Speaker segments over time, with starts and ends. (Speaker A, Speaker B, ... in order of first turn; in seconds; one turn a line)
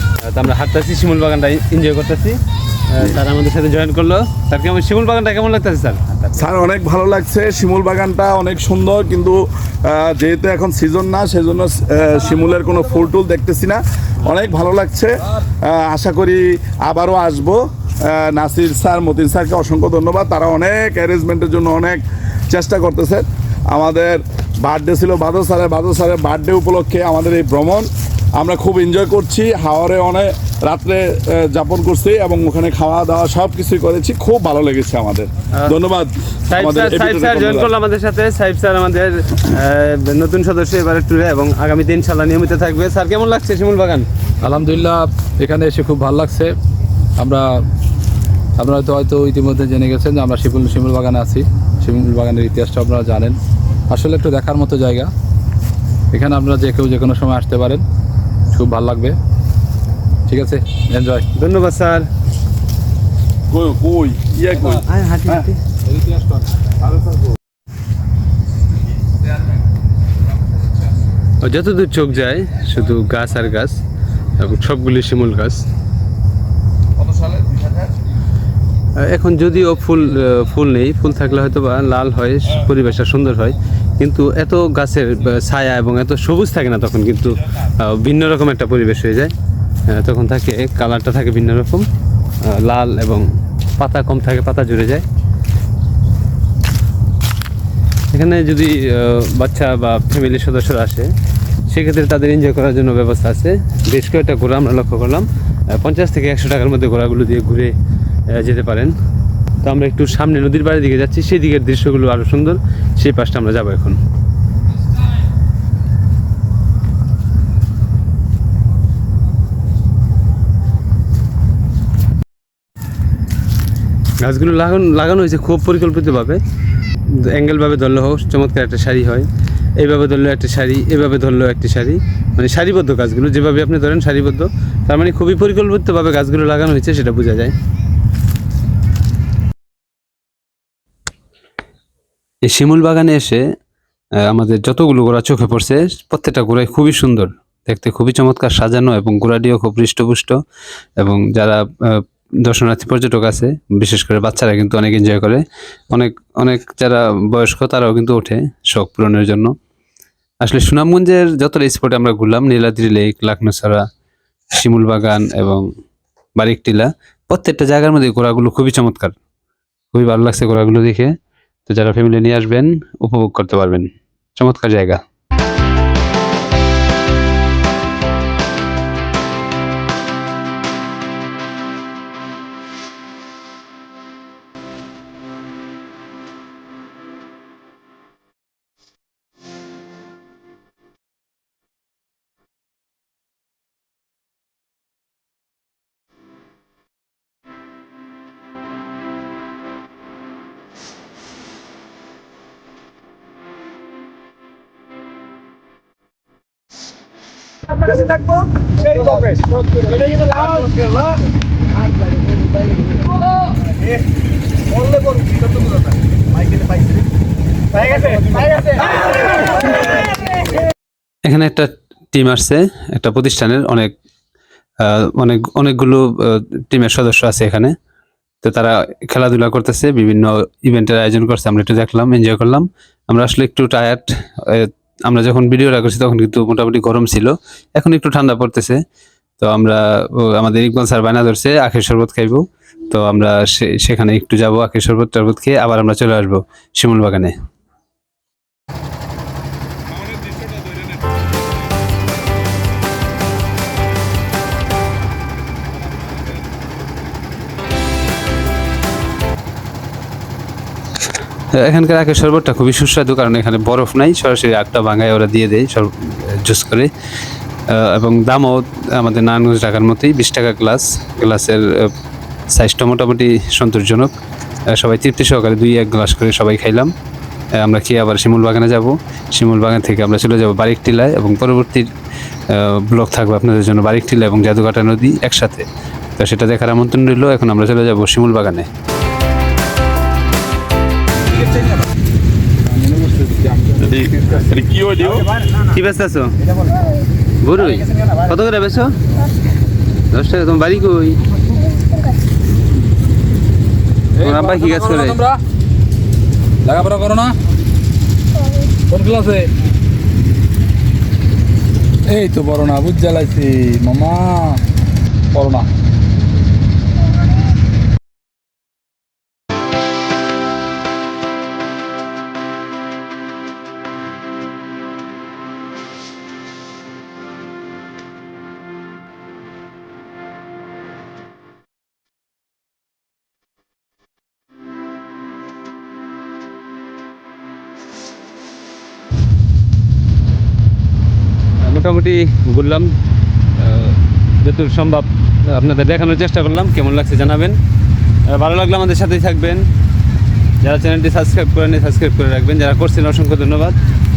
Speaker A: 0.2-6.2
Speaker B: 6.3-37.7
Speaker A: 36.5-44.0
Speaker C: 44.4-46.5
Speaker C: 47.2-47.4
Speaker C: 48.6-53.4
Speaker C: 53.9-55.1
Speaker C: 56.1-57.8
Speaker C: 58.5-59.2
Speaker C: 60.3-61.2
Speaker A: 61.4-62.1
Speaker B: 63.5-65.4
Speaker A: 64.9-65.6
Speaker C: 65.9-66.3
Speaker A: 71.4-73.8
Speaker A: 74.4-75.6
Speaker B: 77.0-77.9
Speaker A: 79.0-89.3
Speaker A: 89.9-91.8
Speaker A: 92.4-95.0
Speaker A: 98.1-101.1
Speaker A: 101.7-107.7
Speaker A: 108.3-109.0
Speaker A: 109.6-114.0
Speaker A: 124.2-126.4
Speaker A: 127.2-129.3
Speaker A: 129.8-137.5
Speaker A: 142.4-143.4
Speaker A: 144.2-150.4
Speaker A: 151.0-159.5
Speaker A: 160.4-163.8
Speaker A: 164.5-165.6
Speaker A: 166.4-169.1
Speaker A: 169.9-171.1
Speaker A: 171.7-175.0
Speaker A: 210.3-210.6
Speaker A: 221.2-223.9
Speaker A: 224.8-227.7
Speaker A: 228.4-238.8
Speaker A: 239.4-247.3
Speaker B: 249.9-251.1
Speaker A: 261.5-266.9
Speaker A: 267.7-271.9
Speaker A: 272.5-274.1
Speaker A: 274.7-276.9
Speaker A: 277.6-281.9
Speaker A: 282.5-285.6
Speaker A: 286.2-288.7
Speaker C: 292.7-294.1
Speaker B: 293.8-295.3
Speaker A: 295.6-296.4
Speaker A: 297.4-299.0
Speaker A: 300.1-301.2
Speaker C: 304.2-305.4
Speaker A: 304.2-305.2
Speaker C: 306.6-307.3
Speaker C: 308.9-309.5
Speaker C: 312.1-314.6
Speaker C: 315.3-315.7
Speaker A: 341.6-342.9
Speaker A: 343.6-347.6
Speaker A: 348.3-349.7
Speaker A: 350.6-353.8